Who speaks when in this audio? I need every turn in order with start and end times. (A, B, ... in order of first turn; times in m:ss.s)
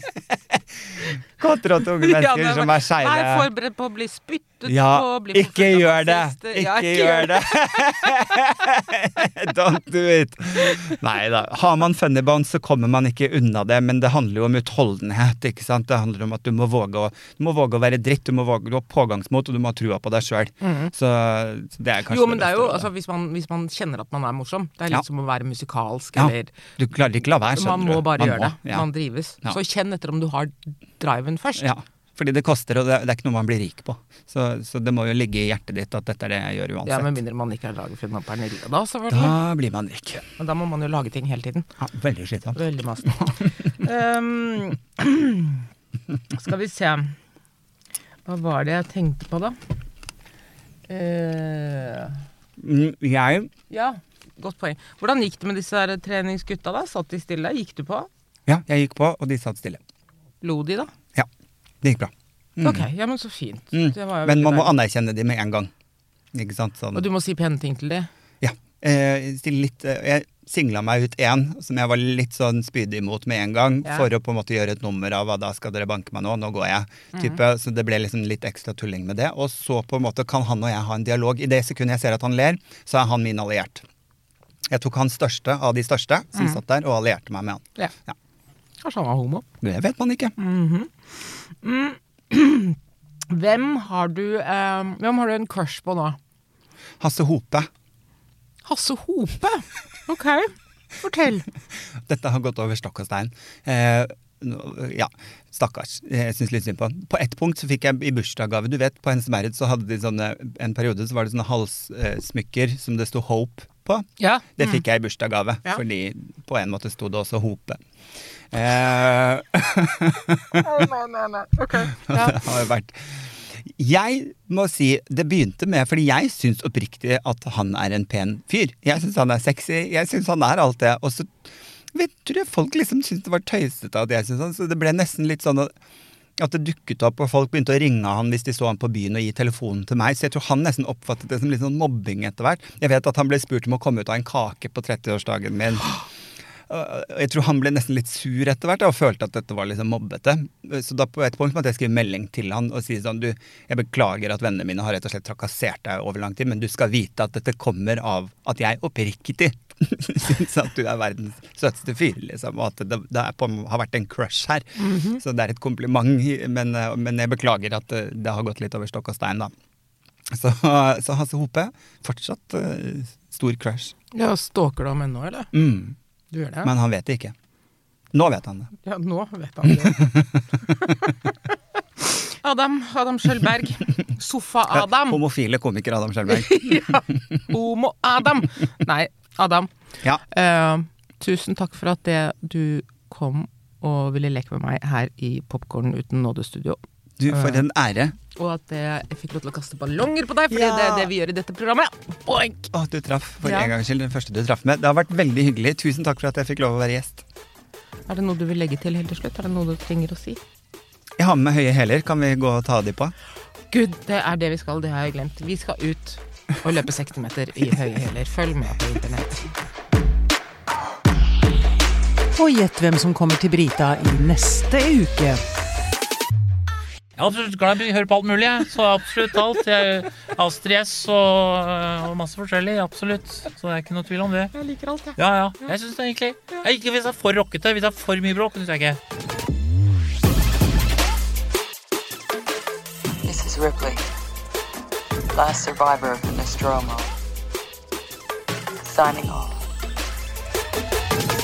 0:00.5-0:03.5 A
0:02.0-0:07.5 B
0:04.7-0:22.9 A
0:20.6-0:20.9 B
0:22.1-0:26.6 B
0:26.2-0:28.9 A
0:27.5-0:31.7 B
0:31.6-0:37.2 A
0:36.8-0:39.4 B
0:39.1-0:40.2 A
0:40.4-0:41.7 B
0:41.8-0:43.4 A
0:42.5-0:45.6 B
0:46.3-0:47.2 B
0:48.3-0:49.6 B
0:50.9-0:52.2 B
0:52.6-0:53.5 A
0:53.7-0:58.1 B
0:58.5-0:59.8 A
1:00.4-1:00.9 B
1:01.8-1:02.9 A
1:02.6-1:04.8 B
1:03.7-1:05.7 A
1:06.3-1:07.1 A
1:06.9-1:08.1 B
1:08.4-1:23.8 A
1:24.7-1:28.2 A
1:26.4-1:26.6 B
1:28.8-1:29.4 B
1:29.6-1:30.4 A
1:30.4-1:32.8 B
1:33.3-1:36.2 B
1:37.0-1:37.7 A
1:38.6-1:41.5 B
1:41.7-1:57.8 A
1:54.2-1:54.8 B
1:58.5-2:00.7 A
2:00.6-2:02.4 B
2:02.0-2:15.7 A
2:16.4-2:26.0 A
2:26.7-2:49.5 A
2:44.8-2:45.2 B
2:50.3-2:54.0 A
2:54.1-2:55.5 B
2:55.5-2:56.0 A
2:56.3-2:56.7 B
2:56.6-2:57.4 A
2:58.1-2:58.7 A
2:58.8-3:00.2 B
2:59.6-3:00.6 A
3:02.2-3:05.2 B
3:04.7-3:07.0 A
3:06.3-3:09.7 B
3:10.2-3:17.6 B
3:17.2-3:18.2 A
3:18.4-3:22.7 B
3:20.5-3:21.1 A
3:22.7-3:27.2 A
3:23.4-3:23.7 B
3:28.1-3:30.4 B
3:31.2-3:33.1 A
3:33.7-3:39.5 B
3:42.3-3:45.4 C
3:47.2-3:54.5 D
3:54.5-3:55.2 B
3:55.2-3:59.0 D
4:03.2-4:04.0 E
4:05.3-4:07.1 E
4:08.8-4:09.7 E